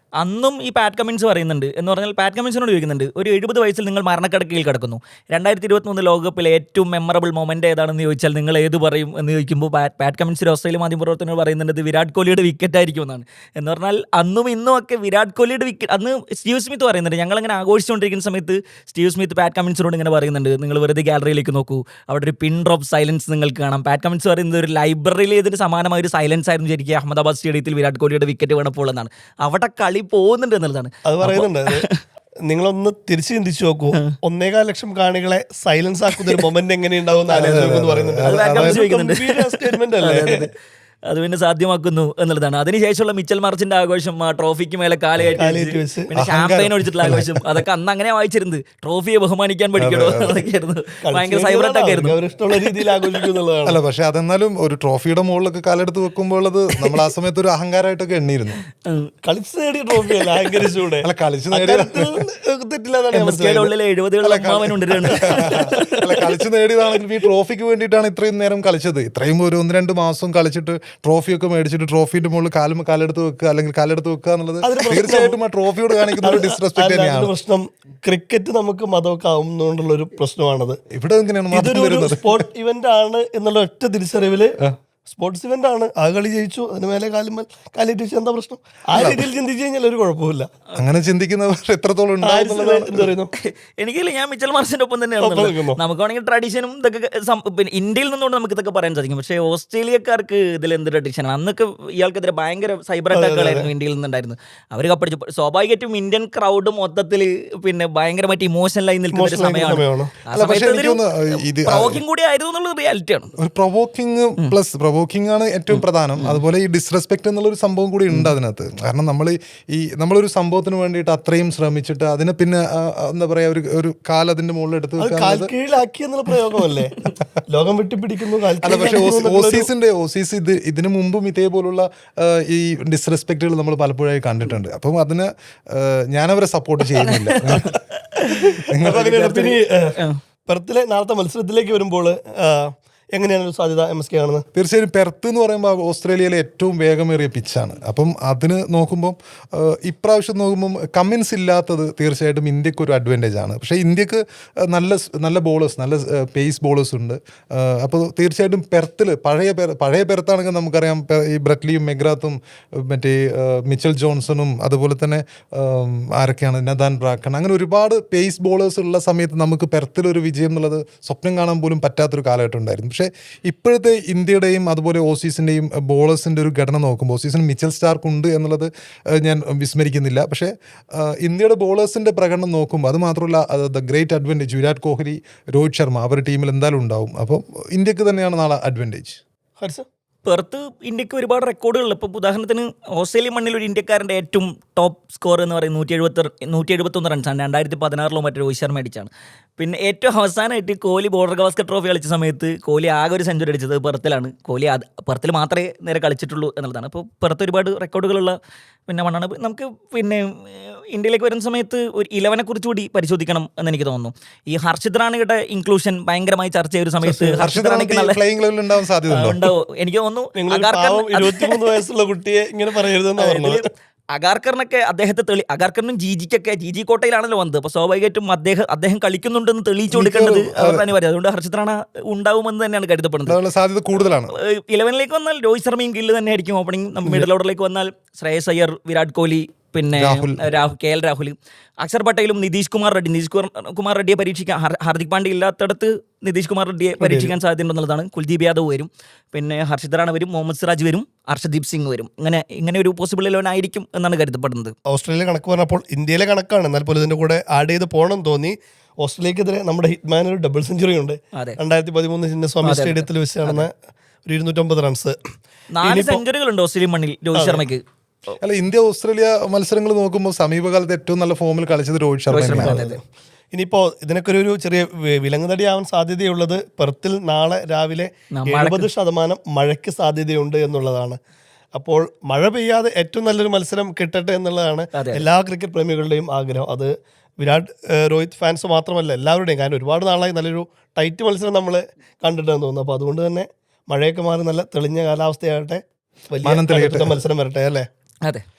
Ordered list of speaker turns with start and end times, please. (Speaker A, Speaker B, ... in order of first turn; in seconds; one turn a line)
Speaker A: 0.2-32.0
Speaker B: 31.1-31.9
Speaker B: 32.5-40.5
Speaker C: 37.3-38.8
Speaker A: 38.2-40.5
Speaker A: 41.1-53.3
Speaker B: 45.4-46.1
Speaker C: 46.1-47.6
Speaker C: 49.8-50.4
Speaker B: 51.0-53.8
Speaker C: 53.7-58.6
Speaker B: 59.2-63.7
Speaker C: 61.0-62.3
Speaker A: 63.1-66.2
Speaker C: 64.2-77.3
Speaker B: 65.1-66.1
Speaker B: 74.6-75.4
Speaker B: 76.2-80.8
Speaker C: 80.9-82.5
Speaker B: 81.5-84.6
Speaker B: 85.1-90.5
Speaker C: 88.9-89.3
Speaker C: 90.8-93.1
Speaker B: 92.2-93.3
Speaker A: 93.4-113.3
Speaker B: 95.2-95.8
Speaker B: 103.1-103.7
Speaker B: 109.1-110.1
Speaker C: 110.3-112.0
Speaker C: 113.4-125.5
Speaker A: 115.7-116.4
Speaker B: 125.0-127.0
Speaker B: 127.5-129.7
Speaker C: 128.6-137.7
Speaker A: 137.0-138.5
Speaker B: 138.2-144.4
Speaker C: 138.7-139.6
Speaker C: 144.5-189.2
Speaker B: 189.6-189.9
Speaker A: 190.3-208.3
Speaker A: 208.9-218.2
Speaker B: 217.0-217.4
Speaker C: 217.4-219.5
Speaker A: 219.1-221.8
Speaker B: 220.3-223.6
Speaker A: 223.2-233.4
Speaker C: 229.9-230.9
Speaker C: 233.2-234.3
Speaker A: 234.0-254.7
Speaker C: 239.9-240.4
Speaker B: 247.0-247.3
Speaker B: 254.9-263.7
Speaker A: 262.6-263.7
Speaker B: 264.3-265.2
Speaker A: 265.8-267.8
Speaker B: 265.8-266.2
Speaker B: 267.4-267.6
Speaker C: 268.4-272.9
Speaker A: 272.3-273.0
Speaker B: 272.5-273.0
Speaker B: 273.5-281.2
Speaker A: 278.4-278.9
Speaker B: 281.8-297.9
Speaker A: 284.9-285.2
Speaker C: 296.4-297.2